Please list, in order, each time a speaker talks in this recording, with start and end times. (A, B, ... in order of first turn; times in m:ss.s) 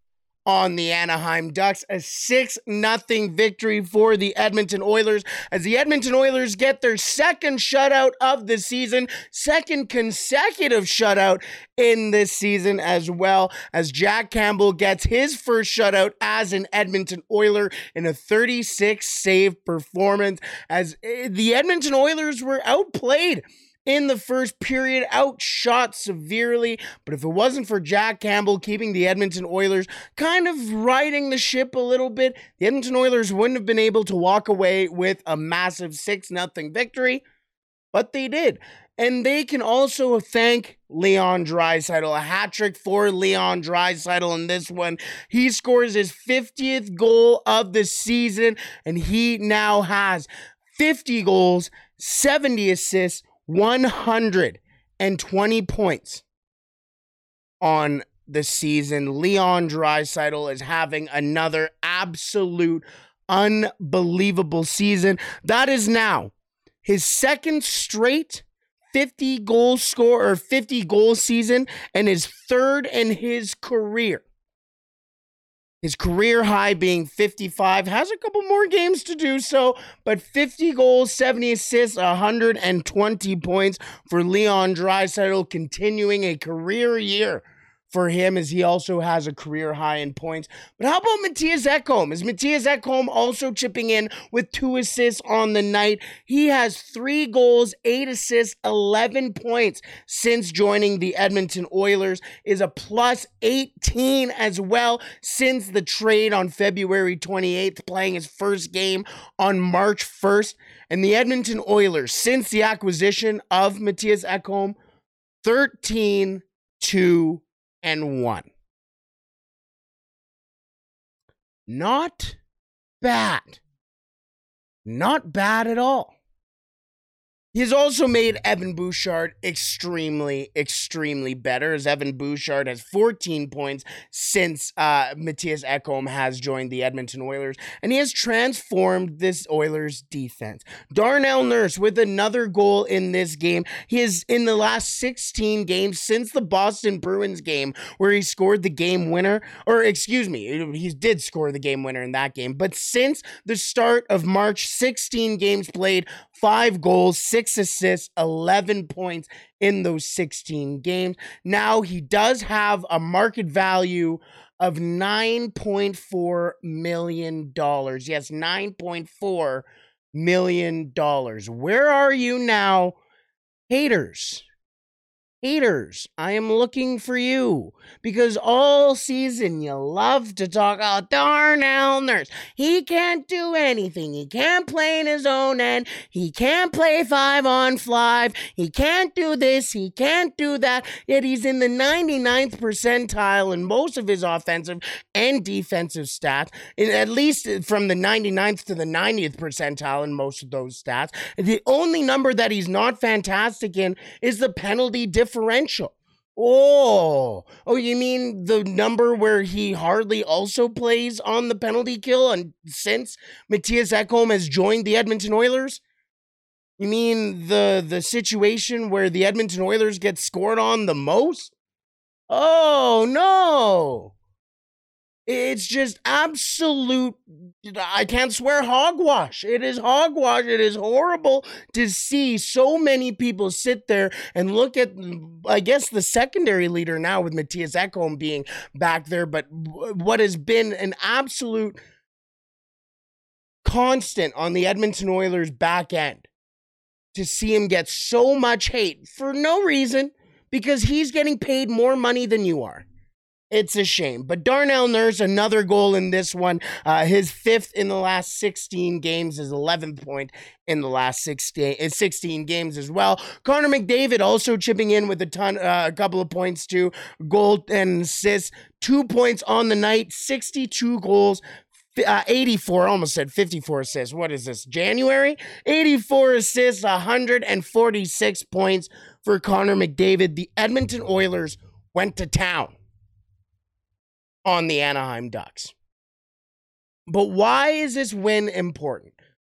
0:00.5-0:37.2 A
0:37.9-0:56.2 A
0:57.6-1:06.3 A
1:06.8-1:14.2 A
1:15.8-1:54.8 A
1:55.4-1:58.5 A
2:01.7-2:02.4 A
2:03.0-2:03.6 A
2:04.8-2:06.1 A
2:07.5-2:53.0 A
2:53.7-2:54.4 A
2:55.4-3:35.8 A
3:36.8-3:41.5 A
3:42.3-3:44.1 A
3:45.3-4:01.8 A
4:03.6-4:06.2 A
4:07.1-4:12.8 A
4:13.5-4:31.4 A
4:31.9-4:42.8 A
4:44.4-4:45.7 A
4:47.1-4:49.2 A